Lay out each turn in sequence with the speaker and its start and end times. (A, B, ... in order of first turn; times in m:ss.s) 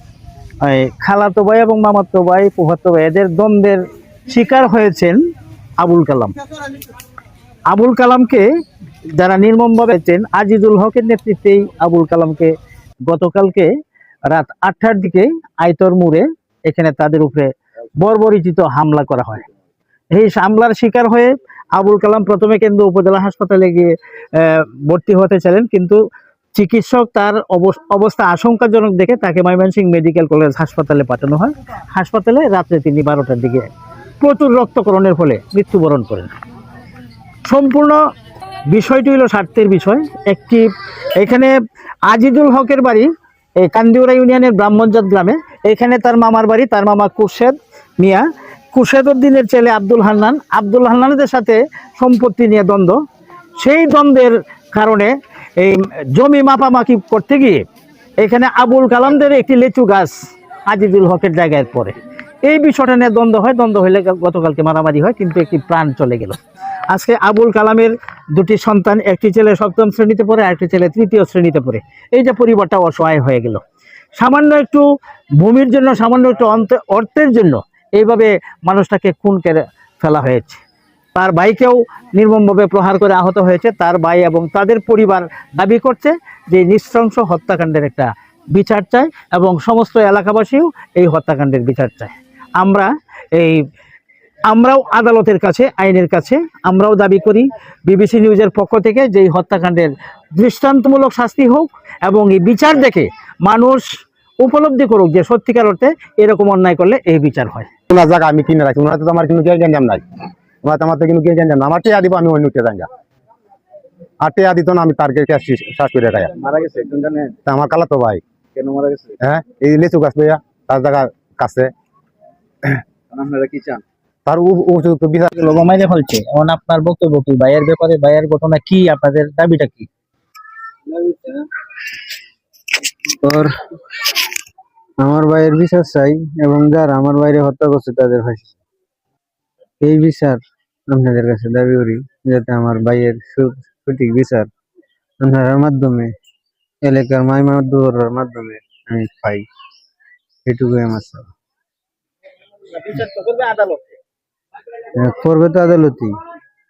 0:00.6-0:05.2 A
0:05.8-0:06.4 A
0:07.7-0:08.4 A
0:09.1-0:12.5 A
0:13.0-0:13.7 A
0:14.3-0:19.4 A
0:20.1-0:26.0 A
0:26.5-0:33.7 A
0:34.2-0:36.3 A
0:37.4-0:38.0 A
0:38.7-0:41.5 A
0:42.0-0:53.0 A
0:53.6-0:57.6 A
0:58.2-1:06.4 A
1:06.9-1:13.6 A
1:14.2-1:14.8 A
1:15.4-1:20.6 A
1:21.1-1:33.6 A
1:34.5-1:43.9 A
1:44.4-1:47.7 A
1:47.9-1:50.0 B
1:50.6-1:52.9 B
1:54.2-1:56.3 B
1:56.3-1:57.4 C
1:57.4-1:58.2 B
1:58.5-1:59.2 C
1:59.2-2:01.7 B
2:03.1-2:03.8 C
2:04.2-2:05.3 B
2:05.3-2:09.9 A
2:10.9-2:11.4 D
2:13.2-2:13.5 D
2:15.0-2:18.6 D
2:19.8-2:24.5 D
2:25.2-2:26.1 D
2:26.8-2:29.4 D
2:30.4-2:31.3 D
2:32.7-2:33.8 A
2:35.0-2:36.1 D